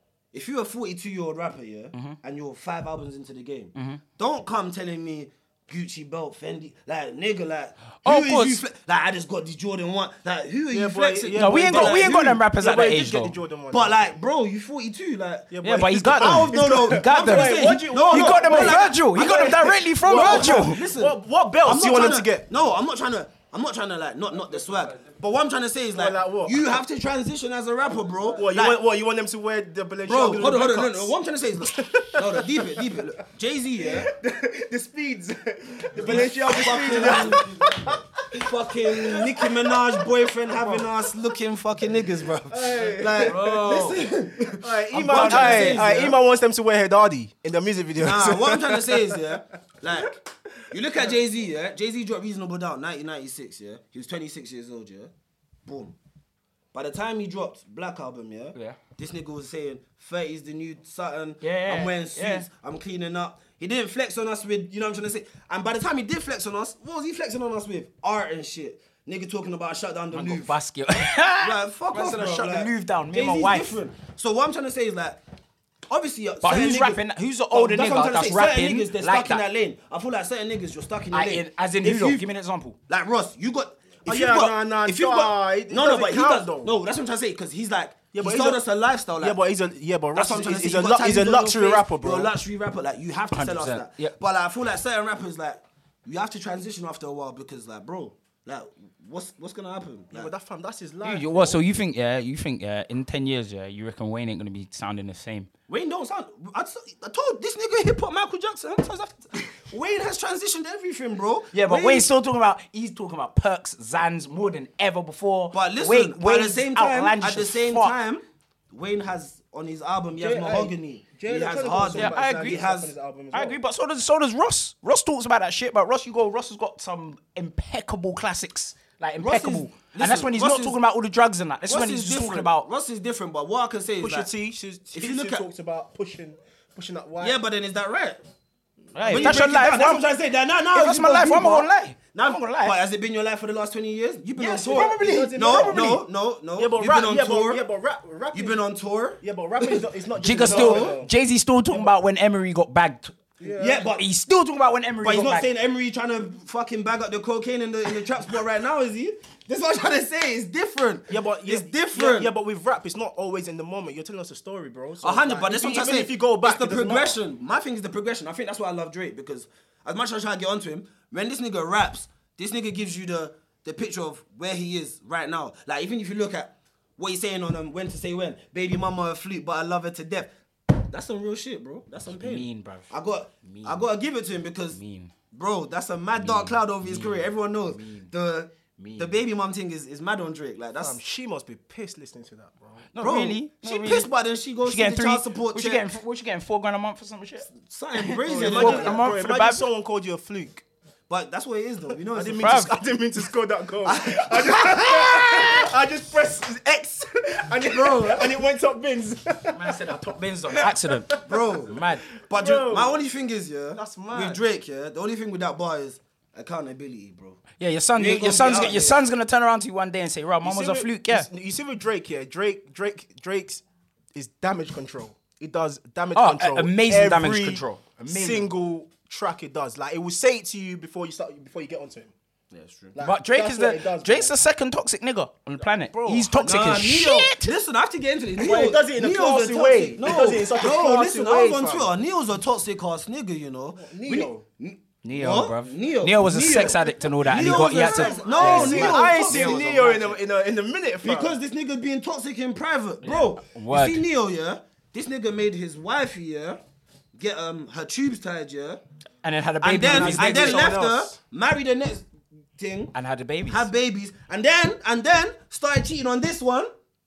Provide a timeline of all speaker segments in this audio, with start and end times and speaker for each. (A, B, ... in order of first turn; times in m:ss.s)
0:00.3-0:12.1 A
0:03.8-0:04.0 B
0:08.0-0:08.6 B
0:10.7-0:14.1 C
0:11.3-0:13.4 B
0:13.7-0:19.0 A
0:15.5-0:22.5 C
0:15.6-0:20.8 B
0:20.0-0:28.8 A
0:25.9-0:26.6 C
0:28.3-0:33.1 C
0:30.1-0:34.1 A
0:33.8-0:41.2 C
0:36.0-0:46.2 A
0:42.5-0:43.6 C
0:43.2-0:44.0 B
0:44.4-0:49.4 C
0:45.0-0:45.8 B
0:48.0-0:50.2 A
0:49.9-0:50.3 C
0:50.7-0:55.1 A
0:55.7-0:56.0 A
0:56.7-1:10.6 A
1:01.4-1:02.5 B
1:10.1-1:13.8 B
1:11.4-1:15.2 A
1:15.9-1:17.0 A
1:16.4-1:19.4 B
1:17.5-1:22.2 A
1:21.1-1:22.8 B
1:22.9-1:29.4 A
1:24.0-1:26.7 C
1:28.1-1:28.6 C
1:29.2-1:32.3 C
1:30.1-1:40.3 A
1:33.3-1:34.1 B
1:40.1-1:41.6 C
1:41.0-1:45.5 B
1:45.7-1:52.1 A
1:51.5-1:58.0 B
1:55.5-2:02.9 A
2:00.2-2:03.6 C
2:01.9-2:02.6 B
2:03.3-2:12.7 B
2:09.2-2:10.8 A
2:11.7-2:14.3 A
2:14.0-2:17.4 C
2:14.9-2:15.4 A
2:17.2-2:18.2 A
2:19.0-2:20.0 B
2:19.0-2:19.4 C
2:19.1-2:27.6 A
2:20.7-2:22.8 B
2:24.4-2:25.9 B
2:24.7-2:28.6 C
2:28.3-2:29.8 A
2:29.2-2:31.1 C
2:30.2-2:33.2 B
2:30.4-2:30.9 A
2:33.4-2:33.8 C
2:33.6-2:34.1 A
2:33.7-2:35.5 B
2:35.0-2:42.3 A
2:41.1-2:47.2 C
2:45.0-3:04.8 A
3:02.1-3:02.9 B
3:03.4-3:03.8 B
3:04.7-3:05.1 B
3:05.3-3:11.0 A
3:06.2-3:08.1 B
3:08.8-3:09.2 B
3:10.8-3:12.9 C
3:12.9-3:14.1 B
3:13.0-3:15.8 A
3:14.6-3:17.5 B
3:17.5-3:19.0 A
3:18.0-3:19.6 B
3:18.2-3:20.6 C
3:21.1-3:22.6 A
3:22.0-3:29.9 C
3:22.4-3:22.7 B
3:23.8-3:25.7 A
3:27.6-3:28.4 A
3:29.5-3:32.1 B
3:30.5-3:31.4 C
3:31.2-3:31.8 A
3:32.2-3:33.0 C
3:32.3-3:37.4 A
3:33.7-3:34.4 C
3:37.6-3:41.3 B
3:38.0-3:39.0 A
3:40.4-3:43.6 C
3:44.1-3:52.1 C
3:46.2-3:48.5 B
3:52.5-3:53.0 A
3:52.9-3:54.3 C
3:53.0-3:57.5 B
3:55.9-3:56.6 C
3:56.4-4:09.7 A
3:58.4-4:01.9 C
3:58.4-3:58.7 B
4:03.7-4:04.4 C
4:05.0-4:10.2 B
4:07.4-4:11.4 C
4:11.0-4:16.6 A
4:13.0-4:14.0 B
4:17.2-4:18.8 A
4:19.2-4:20.8 B
4:19.6-4:23.0 A
4:19.9-4:21.2 C
4:22.9-4:23.7 B
4:23.5-4:26.7 A